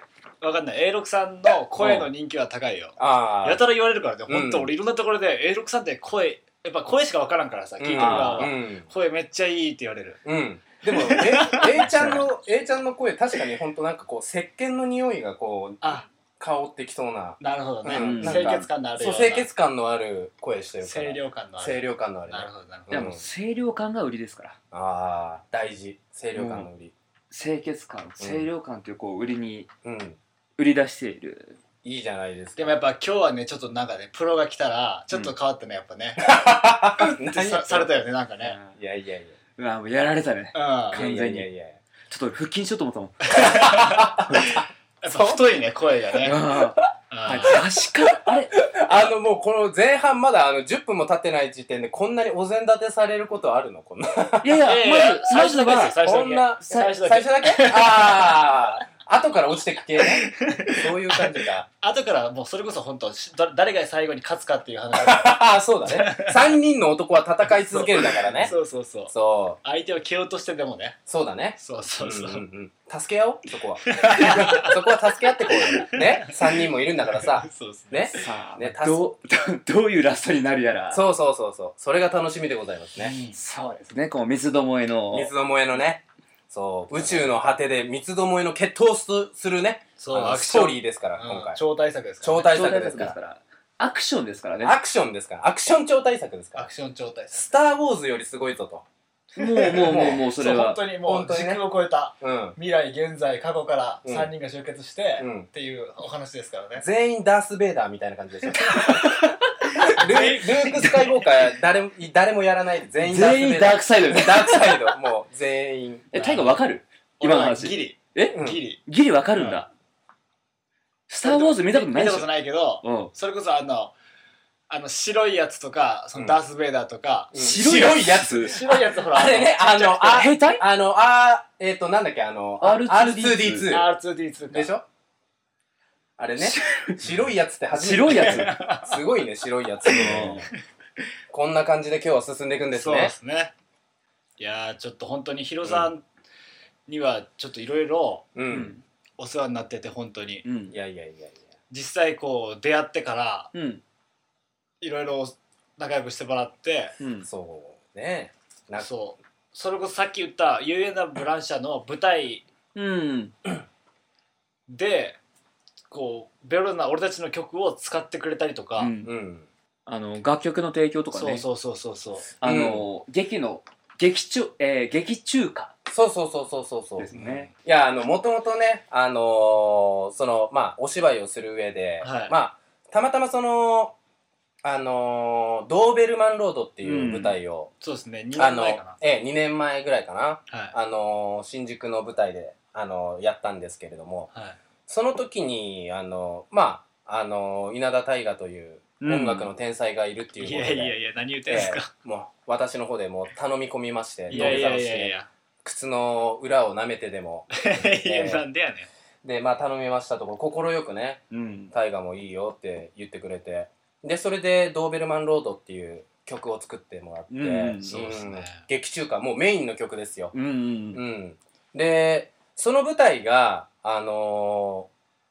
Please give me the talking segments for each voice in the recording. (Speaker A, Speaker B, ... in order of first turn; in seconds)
Speaker A: 0.4-10.2, 10.9-11.8, 15.8-16.1, 17.4-19.5, 20.8-22.9, 32.6-36.3, 37.0-38.6, 40.5-41.0, 43.3-46.4, 47.1-47.6, 54.6-58.4, 60.0-66.5, 67.6-71.0, 71.6-72.5, 73.8-74.8, 75.4-78.3, 83.0-83.8, 90.0-92.4, 96.5-97.5, 99.3-106.9, 109.9-111.1, 116.1-116.5, 117.2-118.8, 121.2-123.9, 124.7-127.3, 128.2-129.9, 133.7-134.7, 138.1-139.0, 139.9-140.3, 142.7-143.5, 144.4-146.0, 146.9-148.3, 149.2-150.4, 151.7-153.5, 154.8-156.9, 158.8-162.4, 164.7-165.2, 165.9-168.9, 171.1-172.3, 177.1-177.5, 182.0-182.3, 187.8-189.0, 190.5-190.7, 194.3-194.6, 200.4-201.9, 204.3-205.3, 207.5-208.9, 217.8-218.6
Speaker B: 1.8-2.1, 7.9-8.5, 11.7-12.3, 17.9-18.6, 22.9-24.6, 26.4-26.7, 27.3-29.7, 30.6-31.6, 38.4-38.7, 39.6-41.5, 42.1-43.6, 46.2-48.5, 54.4-56.0, 78.1-81.0, 83.3-85.3, 92.4-94.8, 99.4-100.8, 113.0-114.9, 116.1-119.7, 121.1-122.3, 122.8-123.1, 127.3-128.6, 130.1-130.6, 132.6-133.7, 136.4-137.0, 137.7-138.6, 139.8-140.5, 148.5-148.8, 150.4-150.8, 153.5-153.8, 157.0-157.3, 162.7-163.4, 168.8-169.1, 169.8-171.4, 172.4-175.7, 177.0-177.5, 186.8-187.4, 199.0-199.5, 204.3-204.7, 211.3-211.7, 217.3-218.1, 220.3-221.0
Speaker C: 3.0-3.6, 4.3-4.7, 7.8-8.8, 10.2-23.2, 24.7-26.9, 28.2-28.5, 29.8-30.2, 31.8-32.8, 36.2-38.0, 38.7-39.4, 40.9-41.8, 43.4-45.4, 48.5-54.6, 56.0-61.7, 64.9-68.5, 69.1-69.6, 71.1-79.0, 80.9-83.2, 85.1-91.6, 92.2-93.2, 94.6-96.7, 97.3-98.8, 99.8-100.2, 101.0-101.6, 102.2-102.5, 104.0-104.3, 105.2-105.5, 106.8-109.3, 109.9-116.1, 118.3-118.6, 127.3-133.9, 134.5-134.8, 136.2-140.5, 141.3-143.1, 145.6-145.9, 148.3-148.7, 150.7-151.4, 157.2-158.9, 169.0-169.5, 172.4-172.8, 175.9-183.9, 184.6-187.7, 188.3-194.3, 194.9-208.4, 209.2-220.3, 220.9-224.9